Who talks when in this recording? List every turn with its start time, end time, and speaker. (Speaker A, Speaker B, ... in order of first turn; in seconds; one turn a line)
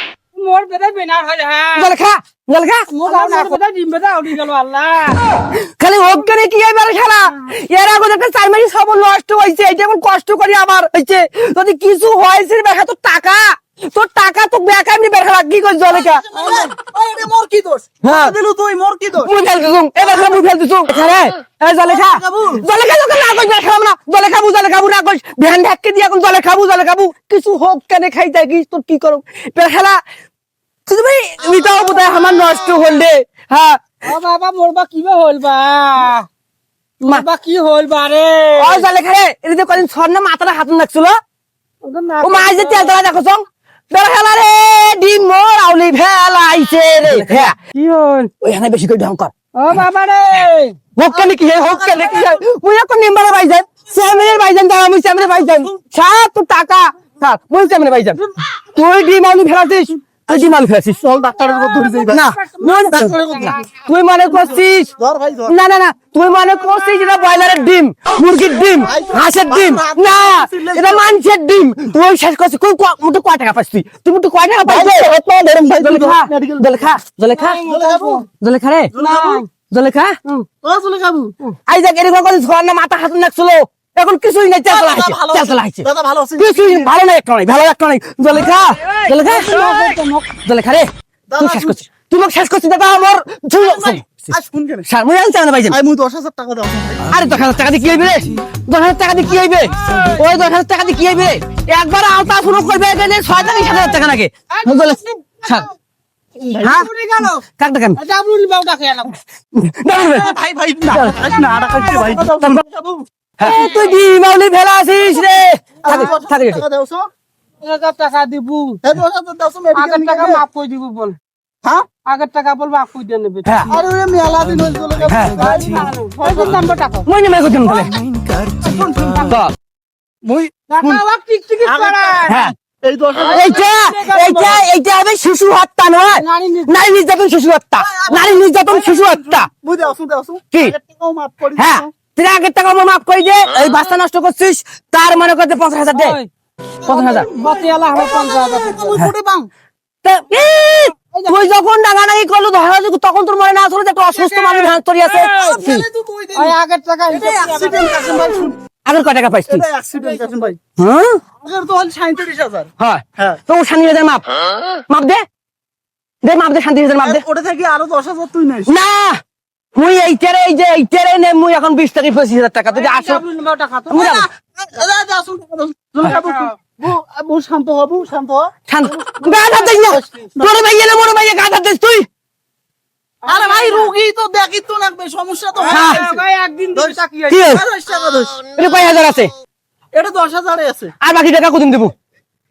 Speaker A: 0.3-1.9
Speaker B: 1.7-2.9
Speaker A: 2.9-5.2
Speaker C: 3.0-3.6
Speaker B: 5.3-16.2
Speaker C: 15.9-19.3
Speaker A: 16.3-16.7
Speaker B: 18.0-18.3
Speaker B: 19.2-30.0
Speaker C: 20.0-20.4
Speaker C: 21.8-22.6
Speaker B: 30.9-33.8
Speaker C: 31.4-32.5
Speaker A: 34.0-36.2
Speaker A: 37.0-38.9
Speaker B: 38.6-41.1
Speaker A: 41.8-43.0
Speaker B: 42.2-47.5
Speaker A: 47.0-48.3
Speaker B: 48.4-49.8
Speaker A: 49.5-50.8
Speaker B: 51.0-58.2
Speaker C: 51.1-52.4
Speaker B: 58.7-61.0
Speaker C: 60.1-62.2
Speaker A: 61.4-63.6
Speaker B: 62.1-64.9
Speaker C: 62.9-63.7
Speaker C: 65.0-65.5
Speaker B: 65.5-77.6
Speaker C: 68.8-71.2
Speaker C: 74.6-75.1
Speaker C: 75.6-76.7
Speaker A: 77.3-78.2
Speaker C: 77.7-78.2
Speaker B: 78.4-78.9
Speaker C: 78.9-79.4
Speaker A: 79.0-79.5
Speaker B: 79.7-80.2
Speaker C: 80.6-81.3
Speaker B: 81.7-85.8
Speaker C: 84.7-86.9
Speaker B: 86.4-89.6
Speaker A: 89.0-90.3
Speaker B: 90.4-90.9
Speaker C: 91.3-91.8
Speaker B: 91.4-94.3
Speaker C: 93.6-94.9
Speaker B: 94.9-95.8
Speaker C: 95.7-97.1
Speaker B: 97.1-105.7
Speaker A: 99.8-100.2
Speaker A: 104.5-105.7
Speaker C: 106.3-106.9
Speaker B: 106.6-106.9
Speaker A: 106.7-109.2
Speaker B: 107.6-108.0
Speaker B: 109.5-110.3
Speaker C: 110.1-113.6
Speaker B: 110.9-111.2
Speaker B: 111.8-112.6
Speaker B: 113.4-116.6
Speaker A: 113.5-113.8
Speaker C: 115.8-117.1
Speaker A: 117.6-118.8
Speaker C: 118.8-120.4
Speaker A: 119.7-121.2
Speaker A: 122.0-123.5
Speaker B: 123.4-123.7
Speaker C: 123.6-126.7
Speaker B: 125.1-125.4
Speaker A: 125.3-127.1
Speaker B: 127.0-128.0
Speaker C: 128.3-129.3
Speaker B: 129.2-129.5
Speaker C: 130.2-131.0
Speaker A: 130.7-132.3
Speaker C: 131.6-133.6
Speaker B: 132.3-132.5
Speaker A: 133.3-134.6
Speaker B: 133.3-139.5
Speaker A: 136.1-136.7
Speaker C: 137.8-141.9
Speaker B: 141.6-146.2
Speaker A: 145.9-146.3
Speaker B: 146.8-147.3
Speaker A: 146.9-149.0
Speaker C: 146.9-149.5
Speaker B: 150.0-155.8
Speaker A: 155.1-155.6
Speaker C: 155.2-156.6
Speaker A: 156.3-158.4
Speaker C: 157.1-158.6
Speaker B: 158.8-159.6
Speaker C: 159.5-160.6
Speaker A: 160.0-160.5
Speaker B: 160.8-161.2
Speaker C: 161.4-163.4
Speaker B: 162.8-164.2
Speaker B: 164.9-165.2
Speaker B: 166.2-167.2
Speaker C: 167.0-168.7
Speaker B: 168.7-169.2
Speaker B: 169.7-173.2
Speaker A: 172.7-174.1
Speaker C: 173.9-179.5
Speaker B: 173.9-174.2
Speaker A: 176.0-176.5
Speaker B: 178.7-182.0
Speaker A: 179.3-180.3
Speaker C: 180.2-180.6
Speaker A: 183.2-183.9
Speaker C: 183.3-186.2
Speaker A: 185.6-187.5
Speaker B: 185.7-186.0
Speaker C: 186.7-188.4
Speaker B: 187.3-187.6
Speaker B: 188.6-189.3
Speaker C: 189.9-190.9
Speaker B: 191.0-191.9